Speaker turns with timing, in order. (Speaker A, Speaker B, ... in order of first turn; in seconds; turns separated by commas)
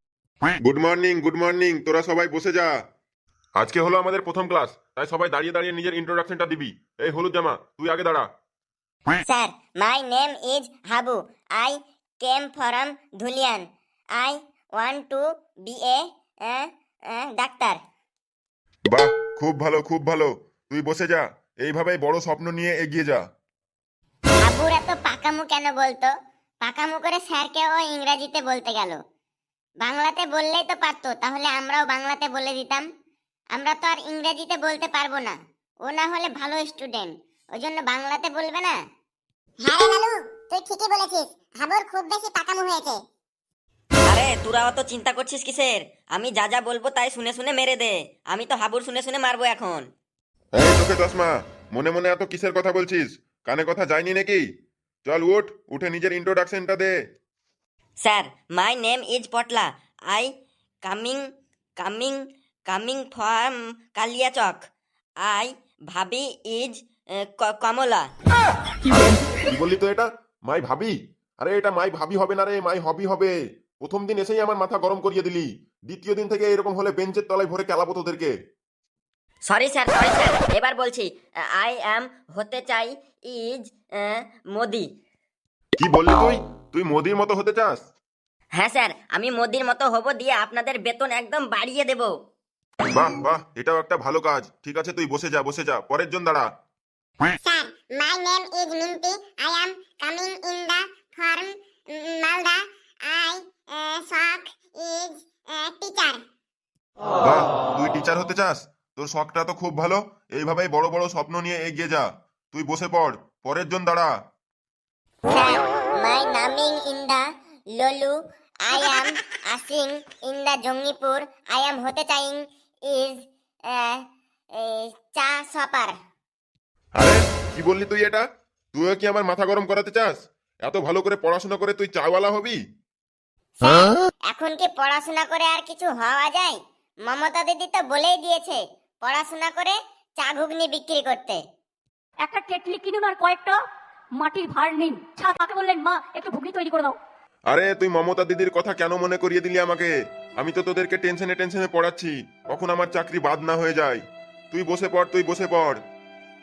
Speaker A: 0.6-2.7, Speaker A: 3.6-8.3, Speaker B: 9.2-13.6, Speaker B: 14.2-17.8, Speaker A: 18.9-23.2, Speaker B: 24.4-26.1, Speaker B: 26.6-29.0, Speaker B: 29.8-32.8, Speaker B: 33.5-35.4, Speaker B: 35.9-38.8, Speaker C: 39.6-43.0, Speaker D: 44.1-49.9, Speaker A: 50.5-54.4, Speaker A: 55.0-56.9, Speaker D: 58.0-60.3, Speaker D: 60.8-61.2, Speaker D: 61.8-64.7, Speaker D: 65.2-68.1, Speaker A: 69.0-78.3, Speaker D: 79.4-84.9, Speaker A: 85.8-87.8, Speaker D: 88.5-92.1, Speaker A: 92.9-96.5, Speaker C: 97.4-106.2, Speaker A: 107.2-114.1, Speaker B: 115.3-117.2, Speaker B: 117.8-123.2, Speaker B: 123.7-124.0, Speaker B: 124.6-125.9, Speaker A: 127.0-132.6, Speaker B: 133.6-141.4, Speaker E: 142.2-143.6, Speaker E: 144.2-146.9, Speaker A: 147.5-155.8